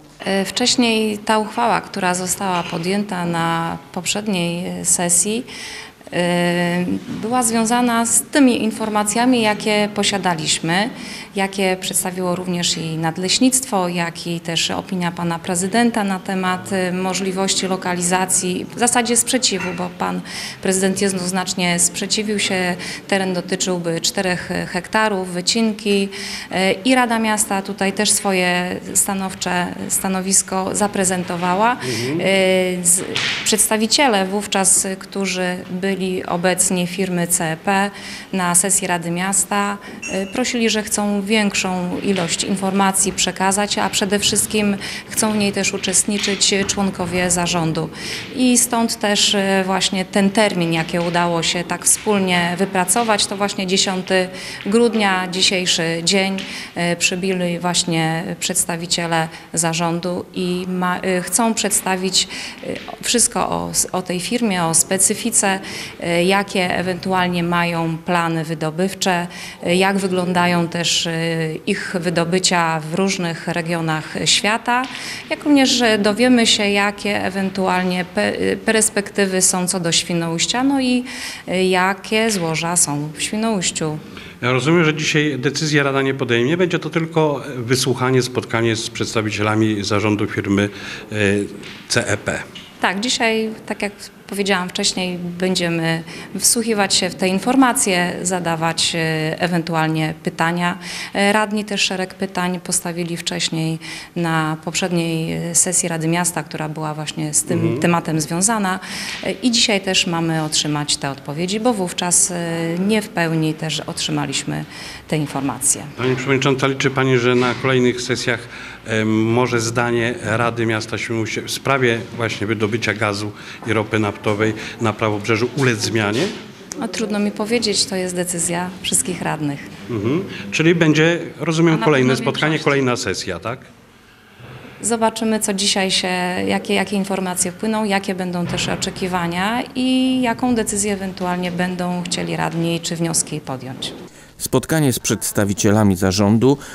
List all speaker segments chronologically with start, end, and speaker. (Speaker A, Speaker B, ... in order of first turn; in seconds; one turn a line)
Speaker A: 0.2-5.5
Speaker A: 6.1-84.0
Speaker B: 31.8-32.2
Speaker B: 84.4-92.4
Speaker A: 92.8-115.9
Speaker B: 107.5-107.8
Speaker B: 116.0-126.3
Speaker A: 126.8-129.7
Speaker B: 129.9-133.7
Speaker A: 131.7-132.8
Speaker A: 134.8-143.9
Speaker C: 144.4-146.6